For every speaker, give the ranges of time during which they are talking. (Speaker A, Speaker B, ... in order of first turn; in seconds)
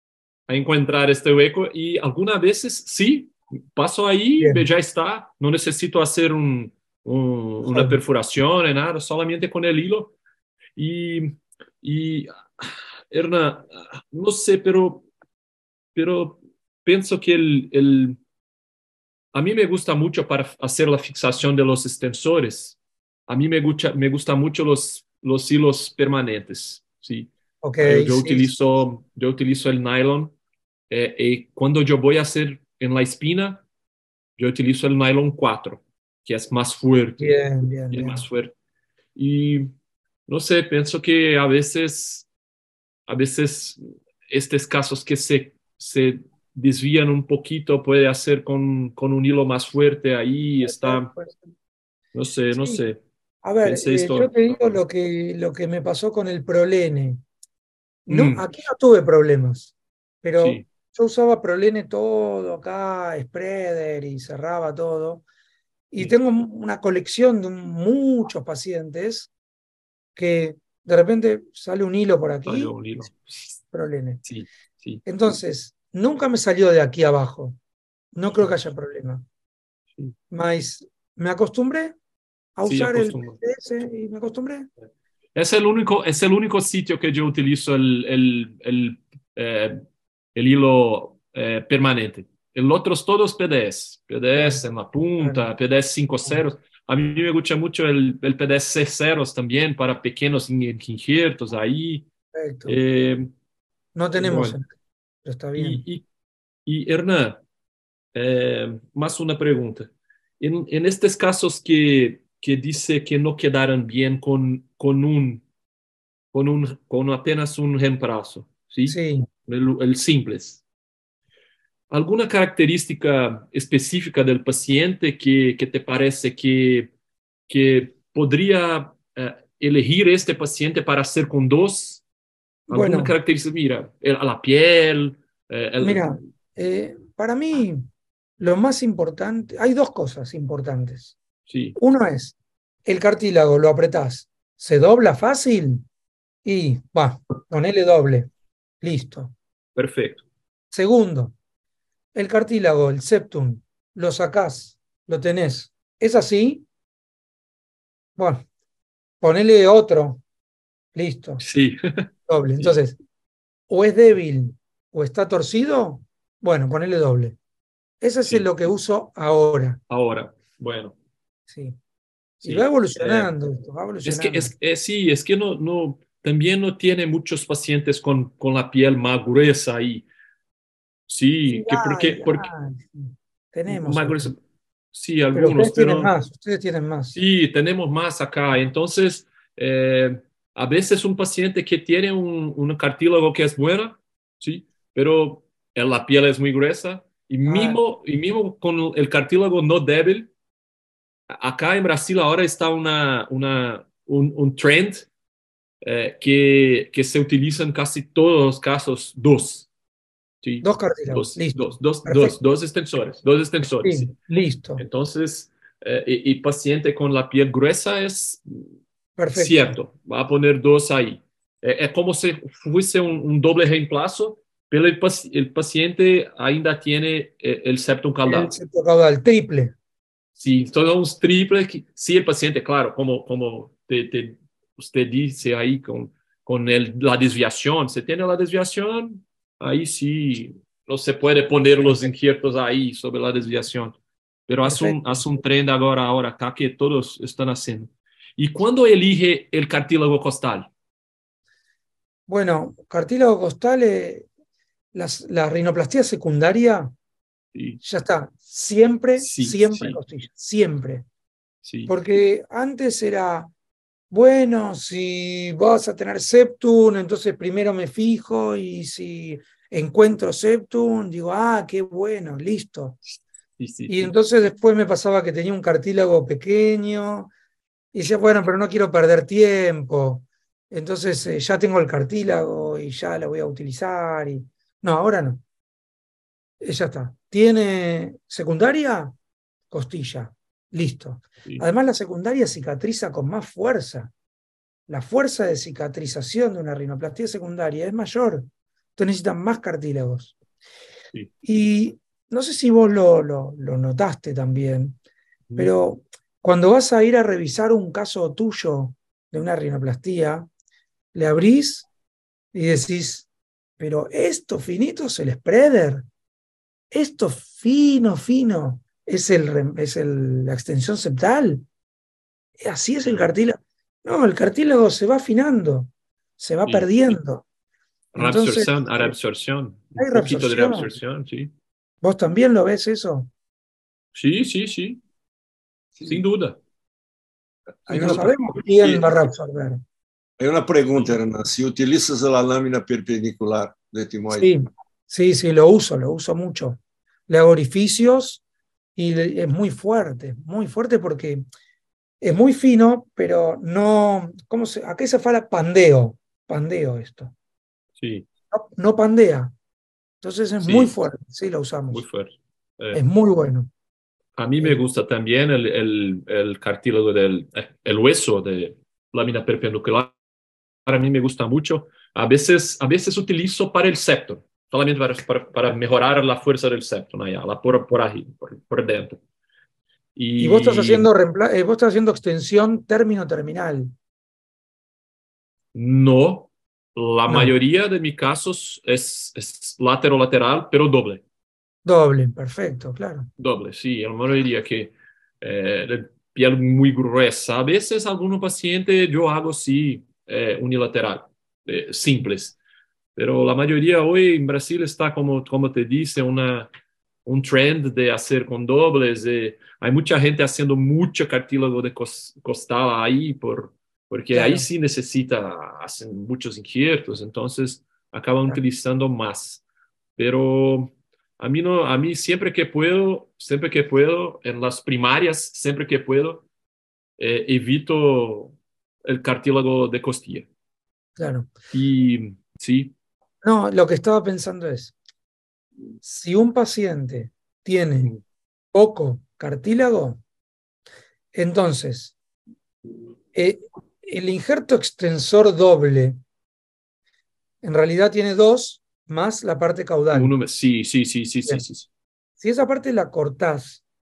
Speaker A: 0.5-10.1, 10.8-15.1, 15.9-18.2, 19.3-22.8, 23.3-27.3, 27.8-30.3, 30.9-33.6, 34.4-38.5, 39.1-39.7, 40.3-42.2, 43.1-51.1, 52.1-53.0, 53.6-54.8, 58.1-58.4, 60.4-60.6, 72.5-73.6, 74.2-75.0, 82.7-83.4, 85.3-102.0, 102.7-103.3, 104.2-104.6, 105.5-106.0, 106.7-107.4, 108.1-115.4, 116.3-120.6, 121.9-126.9, 127.5-132.0, 132.7-136.1, 141.5-141.8, 149.8-150.2, 161.4-162.1, 169.9-170.9, 172.4-173.3, 174.0-180.1, 181.1-182.5, 183.7-184.4, 184.9-186.1, 187.1-200.3, 201.3-205.1, 205.8-209.7, 210.4-214.1, 214.8-218.7, 219.3-228.6, 230.4-244.0, 244.5-250.7, 257.5-257.8, 259.2-260.0, 261.6-261.9, 273.6-274.1, 305.5-305.7, 328.1-331.5, 334.1-335.0, 336.1-336.6, 337.9-338.3, 358.0-358.2, 360.6-360.9, 361.9-363.0, 364.4-370.1, 370.9-379.2, 380.1-381.1, 385.7-391.2, 393.4-402.6, 403.1-406.7, 407.2-419.6, 420.2-426.4, 427.2-430.5, 431.7-432.9, 450.1-451.9
Speaker B: 4.4-4.6, 7.7-8.0, 27.6-28.5, 37.2-38.2, 50.6-51.4, 52.5-52.8, 53.4-57.2, 58.1-65.2, 65.9-69.3, 70.2-72.7, 73.7-74.2, 75.0-77.6, 78.1-79.2, 80.3-82.0, 82.5-84.7, 94.3-94.6, 102.3-102.8, 104.0-104.7, 105.2-105.8, 118.9-119.3, 132.7-133.1, 135.8-137.9, 138.4-141.2, 141.8-145.8, 146.4-149.3, 150.7-151.3, 152.1-156.6, 158.2-158.5, 159.2-160.2, 160.9-161.4, 162.3-162.9, 163.7-167.4, 168.0-169.8, 171.5-171.8, 172.4-174.5, 181.5-184.3, 185.3-187.2, 197.4-197.8, 210.6-212.3, 213.8-214.8, 219.2-219.7, 228.2-229.7, 244.6-245.0, 252.3-254.3, 254.9-256.9, 257.8-261.1, 261.9-263.5, 264.1-273.0, 273.9-277.3, 277.9-285.4, 286.6-289.1, 289.7-294.1, 294.9-300.3, 301.4-305.0, 305.6-310.5, 311.1-311.9, 312.5-313.3, 313.8-316.1, 316.9-321.6, 322.6-327.4, 328.1-329.1, 329.9-330.9, 332.0-333.3, 337.9-339.8, 344.3-348.4, 348.9-351.4, 352.2-357.3, 358.5-359.5, 360.2-362.0, 362.9-363.7, 380.4-383.9, 387.3-387.5, 391.8-393.3, 414.3-414.7, 431.2-431.5, 433.4-434.9, 436.0-438.1, 438.7-440.2, 441.3-442.1, 443.3-446.2, 447.6-450.3, 452.4-453.8
Speaker C: 336.0-336.2, 340.4-344.5